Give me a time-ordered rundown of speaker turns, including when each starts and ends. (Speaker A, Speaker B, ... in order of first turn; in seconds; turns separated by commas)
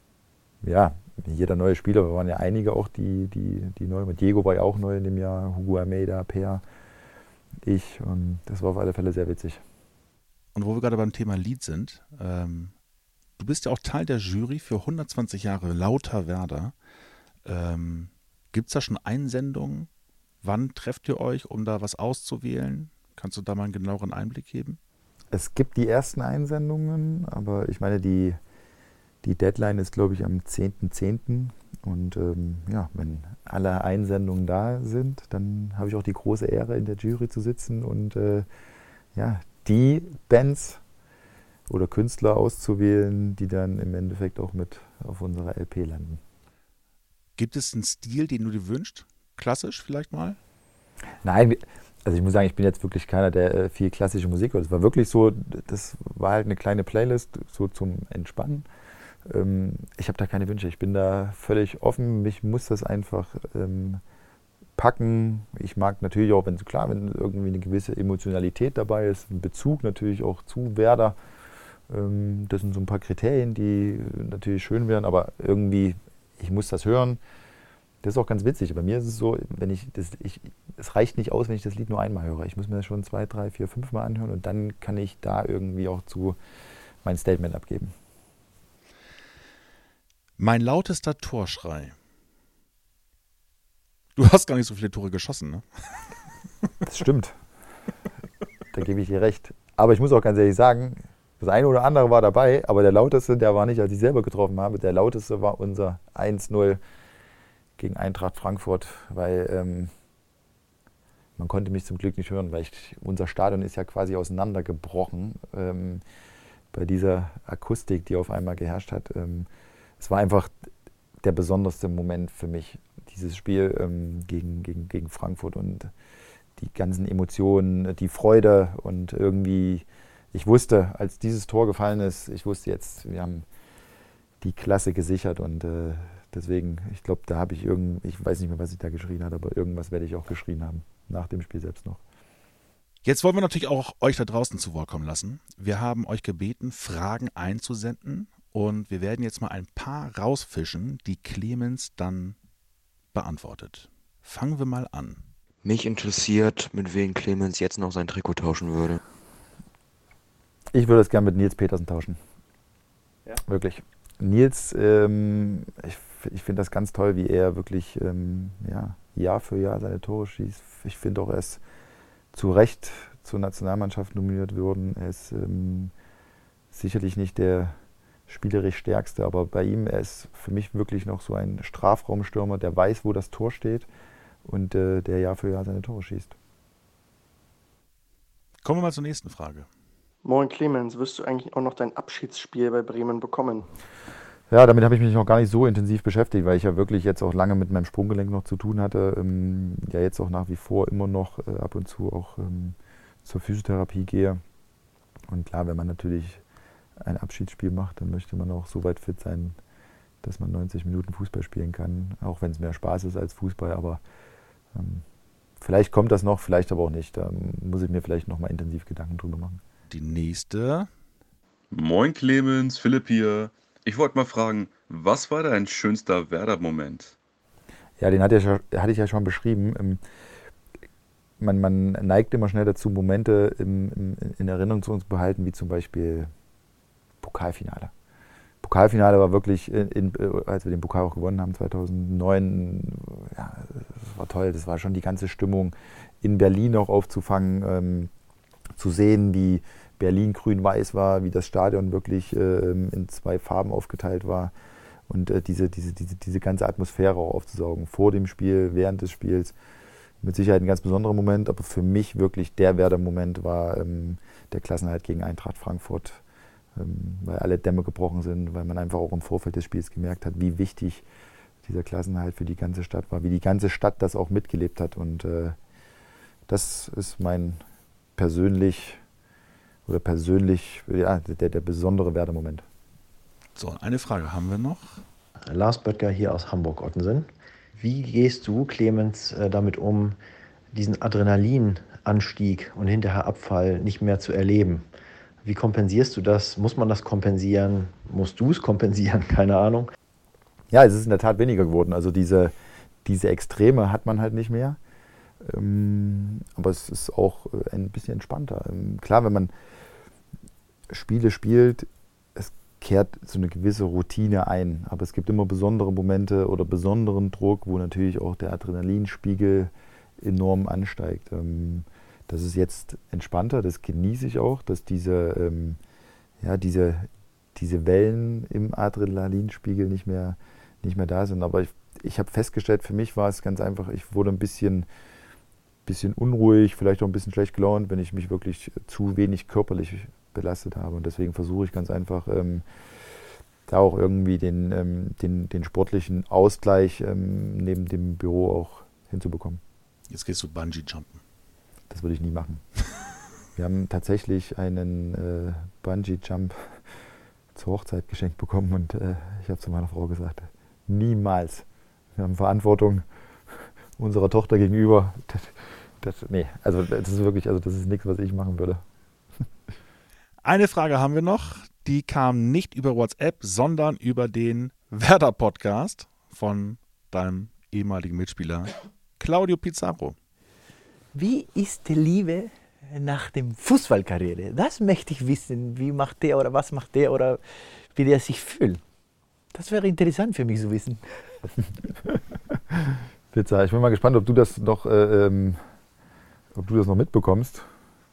Speaker A: 0.6-6.6, Speaker A: 7.6-9.6, Speaker B: 10.5-12.7, Speaker B: 13.4-16.7, Speaker B: 17.4-19.9, Speaker B: 20.4-24.8, Speaker A: 25.3-28.4, Speaker A: 29.2-38.5, Speaker A: 39.1-40.8, Speaker A: 41.7-46.2, Speaker B: 47.4-50.4, Speaker A: 51.2-58.6, Speaker A: 59.2-64.0, Speaker A: 64.8-71.2, Speaker A: 71.9-77.2, Speaker A: 78.0-86.4, Speaker A: 87.0-87.9, Speaker B: 90.4-91.9, Speaker B: 94.2-96.0, Speaker A: 96.8-97.3, Speaker A: 98.7-106.8, Speaker A: 107.8-109.9, Speaker A: 111.4-116.0, Speaker A: 116.7-119.5, Speaker A: 120.0-120.5, Speaker A: 121.2-125.9, Speaker A: 126.6-133.4, Speaker A: 134.4-142.0, Speaker B: 143.0-152.4, Speaker B: 153.1-155.2, Speaker C: 155.6-159.0, Speaker A: 160.7-162.2, Speaker A: 163.4-171.6, Speaker A: 172.3-175.9, Speaker A: 176.7-177.8, Speaker A: 178.3-183.9, Speaker A: 184.4-186.3, Speaker B: 188.6-189.7, Speaker D: 190.2-193.7, Speaker A: 194.5-204.4, Speaker A: 205.3-206.4, Speaker A: 207.0-209.6, Speaker A: 210.2-214.0, Speaker A: 214.7-215.0, Speaker A: 215.6-219.6, Speaker B: 219.9-220.9, Speaker E: 221.7-227.1, Speaker A: 228.0-230.0, Speaker A: 231.4-236.3, Speaker A: 237.2-237.9, Speaker A: 238.6-248.1, Speaker A: 248.8-254.5, Speaker A: 255.1-259.5, Speaker A: 260.2-266.2, Speaker A: 266.7-271.0, Speaker A: 271.6-275.6, Speaker A: 276.5-277.6, Speaker A: 278.2-279.0, Speaker A: 279.9-282.6, Speaker B: 283.6-285.0, Speaker F: 285.4-290.2, Speaker F: 290.7-294.9, Speaker F: 295.4-299.9, Speaker A: 300.7-304.8, Speaker A: 305.4-309.5, Speaker A: 310.9-325.8, Speaker A: 326.4-334.9, Speaker A: 335.9-342.6, Speaker A: 343.7-349.6, Speaker B: 350.1-351.2, Speaker A: 351.9-352.6, Speaker A: 353.6-356.8, Speaker A: 357.5-361.6, Speaker A: 362.2-363.0, Speaker A: 364.0-368.8, Speaker B: 370.4-380.1, Speaker G: 381.1-388.8, Speaker G: 389.5-391.4, Speaker A: 392.7-395.6, Speaker A: 396.5-397.7